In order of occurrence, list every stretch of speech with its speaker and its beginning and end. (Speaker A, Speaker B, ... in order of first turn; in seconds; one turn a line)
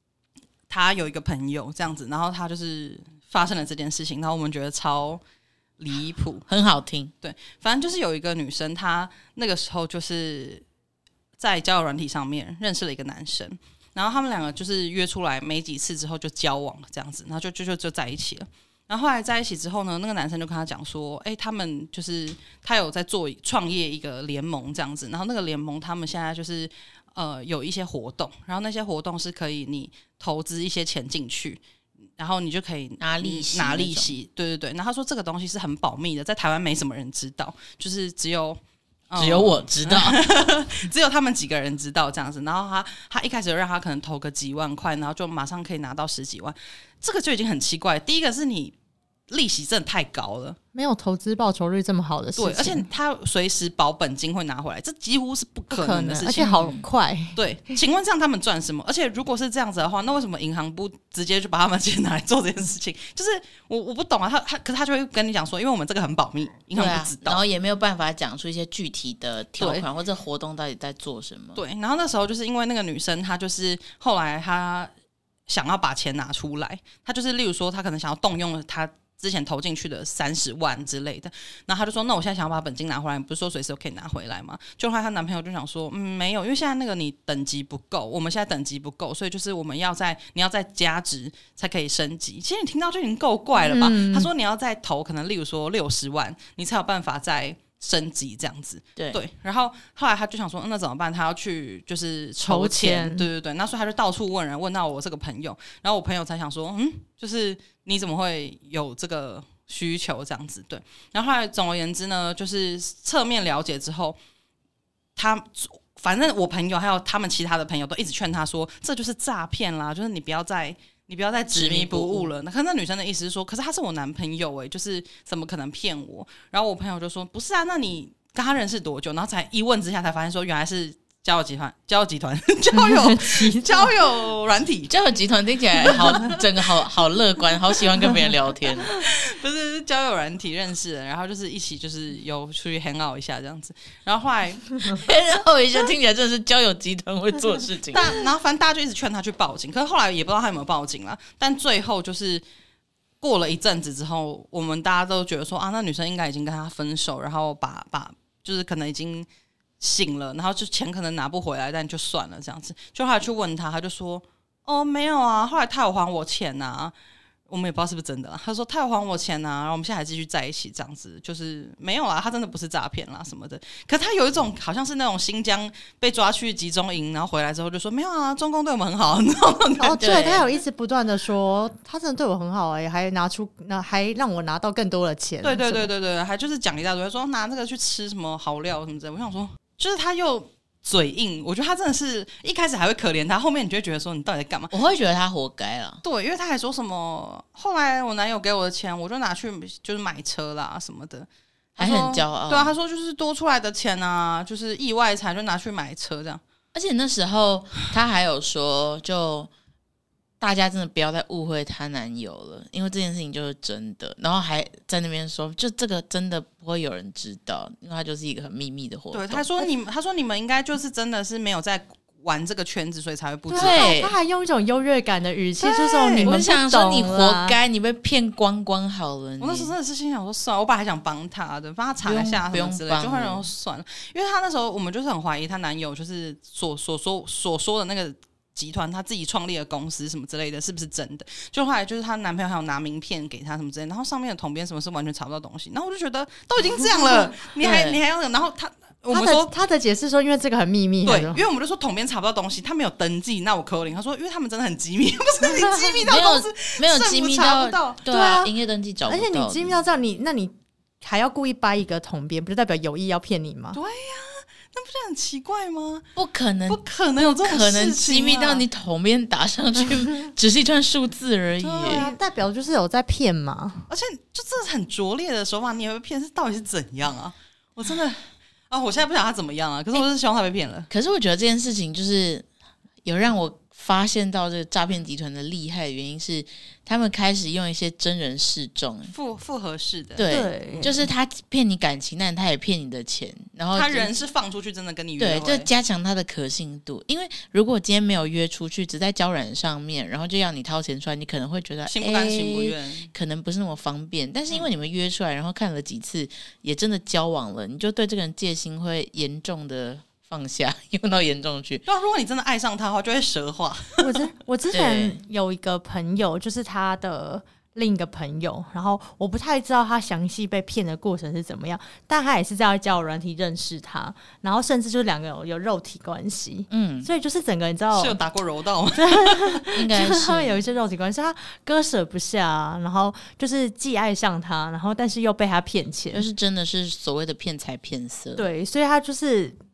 Speaker A: 0.7-5.2
Speaker A: 5.8-6.5
Speaker B: 6.5-7.1
Speaker A: 7.2-10.6
Speaker A: 11.4-31.6
Speaker A: 32.2-48.7
Speaker B: 33.0-34.1
Speaker B: 39.2-40.2
Speaker A: 49.3-50.6
Speaker C: 50.7-52.9
Speaker A: 52.4-56.7
Speaker C: 55.7-57.8
Speaker B: 56.5-56.8
Speaker A: 57.4-67.4
Speaker B: 66.8-71.6
Speaker A: 69.6-69.8
Speaker A: 71.6-74.9
Speaker A: 75.5-114.2
Speaker C: 93.6-94.3
Speaker C: 102.4-103.3
Speaker A: 115.2-135.0
Speaker B: 121.5-122.3
Speaker C: 132.7-133.9
Speaker B: 134.9-139.0
Speaker A: 135.8-136.4
Speaker A: 138.9-145.0
Speaker B: 144.9-148.1
Speaker A: 147.9-152.4
Speaker A: 153.2-159.3
Speaker A: 159.8-166.9
Speaker A: 167.5-180.3
Speaker C: 179.8-185.9
Speaker B: 180.0-180.4
Speaker A: 185.4-194.7
Speaker B: 194.7-196.0
Speaker A: 196.0-206.4
Speaker B: 201.8-202.8
Speaker B: 206.7-209.5
Speaker B: 210.4-219.5
Speaker A: 219.1-224.0
Speaker C: 223.5-227.6
Speaker B: 223.6-224.2
Speaker A: 225.6-226.4
Speaker B: 226.2-229.7
Speaker A: 229.4-249.5
Speaker B: 232.0-233.5
Speaker C: 247.0-247.3
Speaker B: 247.6-248.0
Speaker C: 249.1-251.4
Speaker A: 251.1-258.0
Speaker C: 255.4-256.0
Speaker B: 256.1-259.8
Speaker C: 258.1-258.5
Speaker C: 259.1-263.8
Speaker A: 263.7-266.1
Speaker B: 266.2-272.1
Speaker A: 266.7-268.6
Speaker A: 271.6-272.2
Speaker C: 271.8-273.9
Speaker A: 273.9-280.9
Speaker B: 280.9-282.5
Speaker B: 283.0-289.1
Speaker A: 289.1-290.3
Speaker B: 290.2-294.1
Speaker C: 290.3-291.1
Speaker A: 293.7-295.7
Speaker B: 295.2-311.8
Speaker A: 301.9-303.1
Speaker A: 311.9-314.2
Speaker C: 314.0-328.2
Speaker B: 314.7-315.2
Speaker B: 326.7-327.1
Speaker A: 327.9-329.6
Speaker C: 328.9-336.3
Speaker B: 329.8-330.6
Speaker B: 336.1-338.4
Speaker C: 338.4-339.6